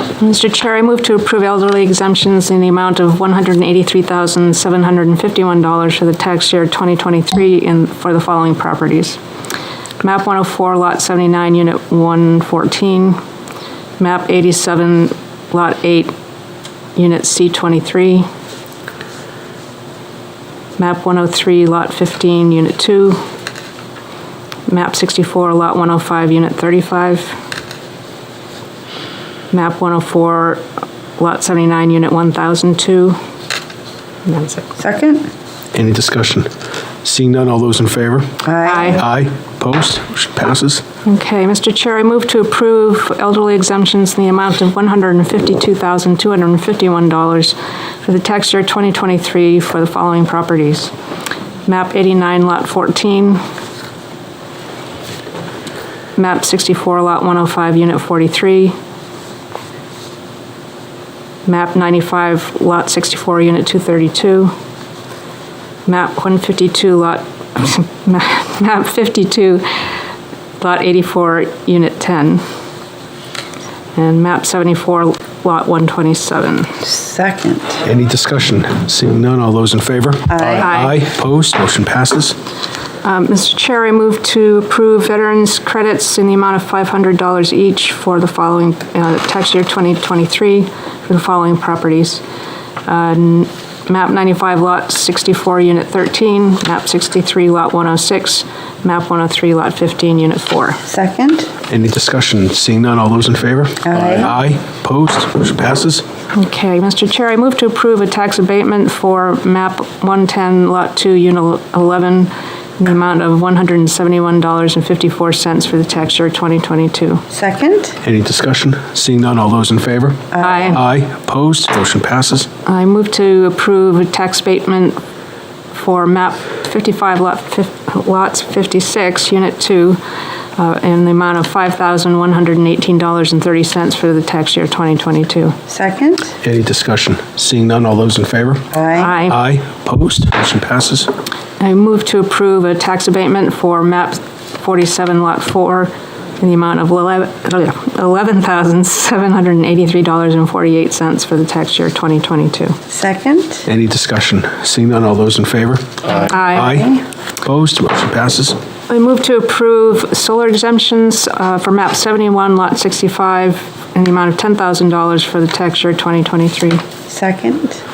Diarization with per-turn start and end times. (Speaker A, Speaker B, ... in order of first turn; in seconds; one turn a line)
Speaker A: 0.2-9.2
Speaker A: 10.0-13.2
Speaker A: 14.0-16.1
Speaker A: 17.0-18.3
Speaker A: 20.8-23.2
Speaker A: 24.7-27.4
Speaker A: 29.5-30.6
Speaker A: 31.2-33.2
Speaker A: 34.3-34.7
Speaker B: 34.8-35.3
Speaker C: 35.7-36.5
Speaker C: 37.0-38.3
Speaker B: 38.4-39.0
Speaker A: 38.6-39.0
Speaker C: 38.9-40.8
Speaker A: 41.0-50.9
Speaker A: 51.7-53.4
Speaker A: 56.2-58.7
Speaker A: 61.5-64.5
Speaker A: 65.9-69.8
Speaker A: 70.6-72.4
Speaker A: 74.0-76.8
Speaker B: 76.8-77.8
Speaker C: 77.8-82.4
Speaker B: 80.3-80.7
Speaker A: 80.6-81.0
Speaker A: 83.0-92.2
Speaker A: 92.9-100.8
Speaker B: 100.9-101.5
Speaker C: 101.7-106.0
Speaker B: 103.8-104.3
Speaker A: 106.3-117.2
Speaker B: 117.3-118.0
Speaker C: 118.0-122.5
Speaker B: 120.3-120.8
Speaker A: 120.4-120.8
Speaker A: 122.7-125.0
Speaker A: 125.7-130.0
Speaker A: 130.6-135.6
Speaker B: 135.7-136.3
Speaker C: 136.4-138.7
Speaker B: 138.7-139.2
Speaker A: 139.0-139.4
Speaker C: 139.2-141.1
Speaker A: 141.6-152.8
Speaker B: 152.9-153.7
Speaker C: 153.7-158.6
Speaker A: 156.3-156.8
Speaker B: 156.6-157.0
Speaker A: 158.9-166.8
Speaker B: 167.1-167.8